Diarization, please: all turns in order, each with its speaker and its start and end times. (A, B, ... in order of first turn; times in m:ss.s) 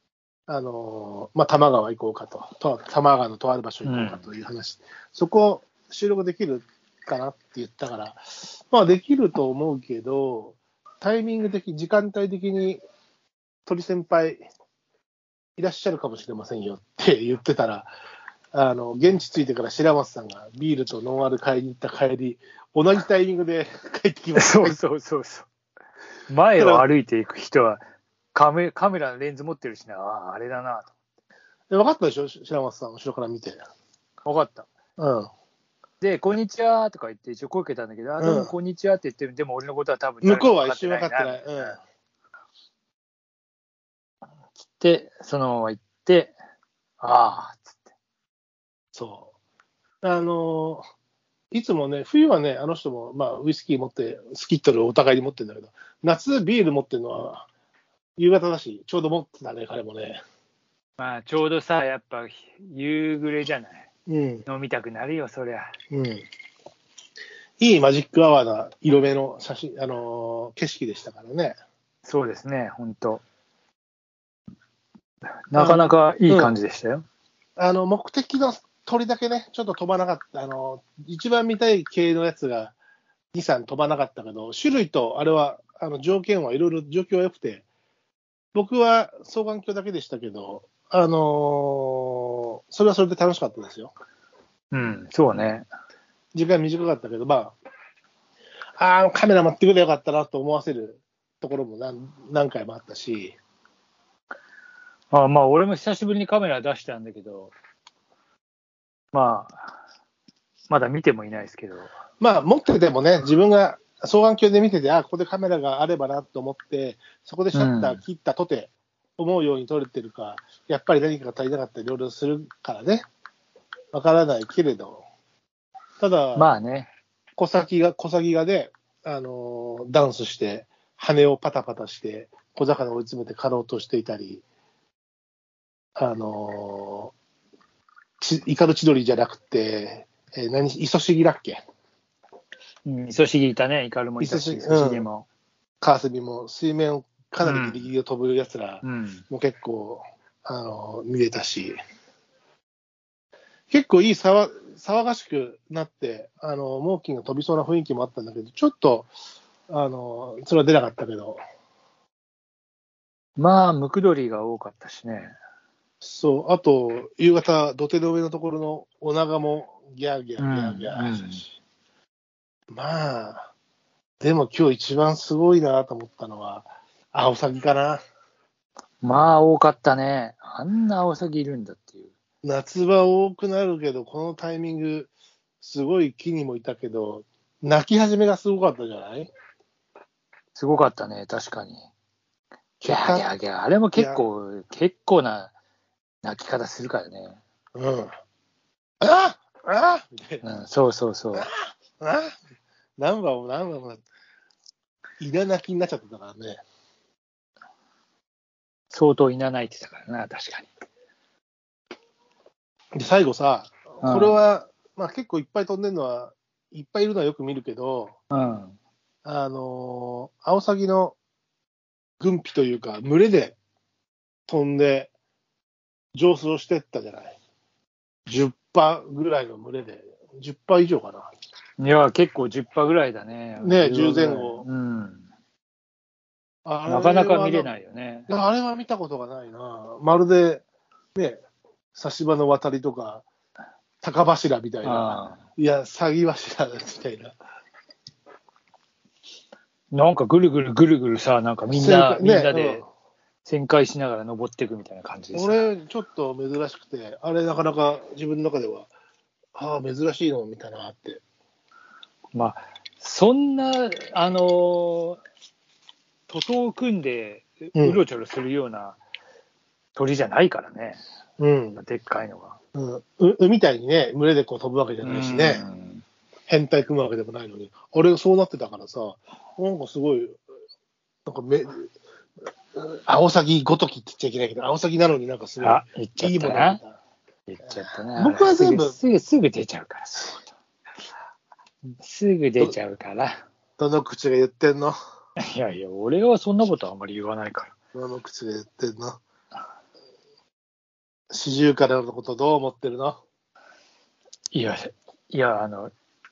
0:00.5-0:12.8 A
0:03.8-0:04.3 B
0:13.6-0:14.4 A
0:15.6-0:17.9 A
0:18.5-0:24.8 A
0:24.4-0:25.5 B
0:26.3-0:27.8 B
0:26.6-0:26.8 A
0:28.3-0:30.9 B
0:31.7-0:33.6 A
0:34.2-0:34.7 B
0:35.0-0:35.3 A
0:36.0-0:41.8 B
0:38.2-0:38.6 A
0:40.2-0:41.8 A
0:44.7-0:46.3 B
0:47.0-0:47.9 B
0:48.9-0:49.3 A
0:50.0-0:50.8 A
0:51.5-0:57.5 A
0:58.2-1:00.2 A
1:01.0-1:03.9 B
1:04.1-1:04.4 A
1:04.4-1:05.7 B
1:05.9-1:06.2 A
1:07.6-1:11.6 A
1:12.0-1:13.2 B
1:15.5-1:17.0 B
1:15.5-1:16.5 A
1:17.6-1:22.7 A
1:23.3-1:27.6 A
1:28.5-1:33.9 A
1:34.7-1:35.7 B
1:36.3-1:37.5 A
1:38.8-1:43.4 A
1:45.1-1:47.5 B
1:49.1-1:49.8 B
1:50.7-1:51.9 B
1:52.2-2:03.0 A
1:57.5-1:58.0 B
2:03.9-2:05.0 A
2:06.0-2:06.5 A
2:06.3-2:06.9 B
2:07.4-2:14.4 A
2:16.0-2:17.1 A
2:18.2-2:21.6 A
2:22.8-2:25.2 B
2:24.2-2:25.1 A
2:25.8-2:31.8 A
2:27.4-2:27.9 B
2:28.8-2:29.2 B
2:33.7-2:39.1 A
2:39.7-2:41.4 A
2:43.4-2:45.3 B
2:46.0-2:51.5 A
2:50.4-2:51.4 B
2:52.7-2:53.5 A
2:54.2-2:58.0 A
2:59.0-3:02.1 B
3:02.4-3:09.3 A
3:10.5-3:11.9 B
3:12.8-3:15.5 B
3:12.8-3:13.3 A
3:13.9-3:14.2 A
3:16.2-3:17.4 B
3:17.7-3:18.1 A
3:19.0-3:20.4 A
3:20.4-3:21.5 B
3:21.3-3:22.3 A
3:23.0-3:24.0 A
3:25.2-3:26.6 A
3:28.9-3:30.7 B
3:32.9-3:38.2 A
3:34.0-3:34.4 B
3:38.3-3:38.8 B
3:39.2-3:41.2 A
3:42.2-3:43.6 A
3:44.5-3:45.1 A
3:46.1-3:47.4 A
3:48.3-3:51.3 A
3:51.8-3:55.2 B
3:53.6-3:54.6 A
3:56.6-3:57.7 A
3:56.8-3:58.3 B
3:58.3-4:00.6 A
4:01.1-4:01.4 A
4:01.9-4:03.2 A
4:04.0-4:07.3 A
4:04.8-4:05.4 B
4:09.9-4:12.9 B
4:11.7-4:12.8 A
4:13.4-4:15.7 B
4:15.3-4:18.9 A
4:19.5-4:21.2 A
4:22.3-4:25.2 B
4:26.3-4:29.0 B
4:27.8-4:28.0 A
4:29.9-4:31.0 B
4:31.4-4:31.8 A
4:31.8-4:32.6 B
4:32.7-4:35.7 A
4:35.0-4:36.0 B
4:36.5-4:40.4 A
4:41.2-4:41.9 A
4:42.7-4:47.0 A
4:45.6-4:46.8 B
4:47.5-4:50.5 B
4:48.2-4:49.0 A
4:52.0-4:53.3 B
4:53.8-4:55.0 A
4:55.4-4:57.7 B
4:57.9-4:59.2 A
5:01.3-5:03.2 A
5:04.5-5:05.9 B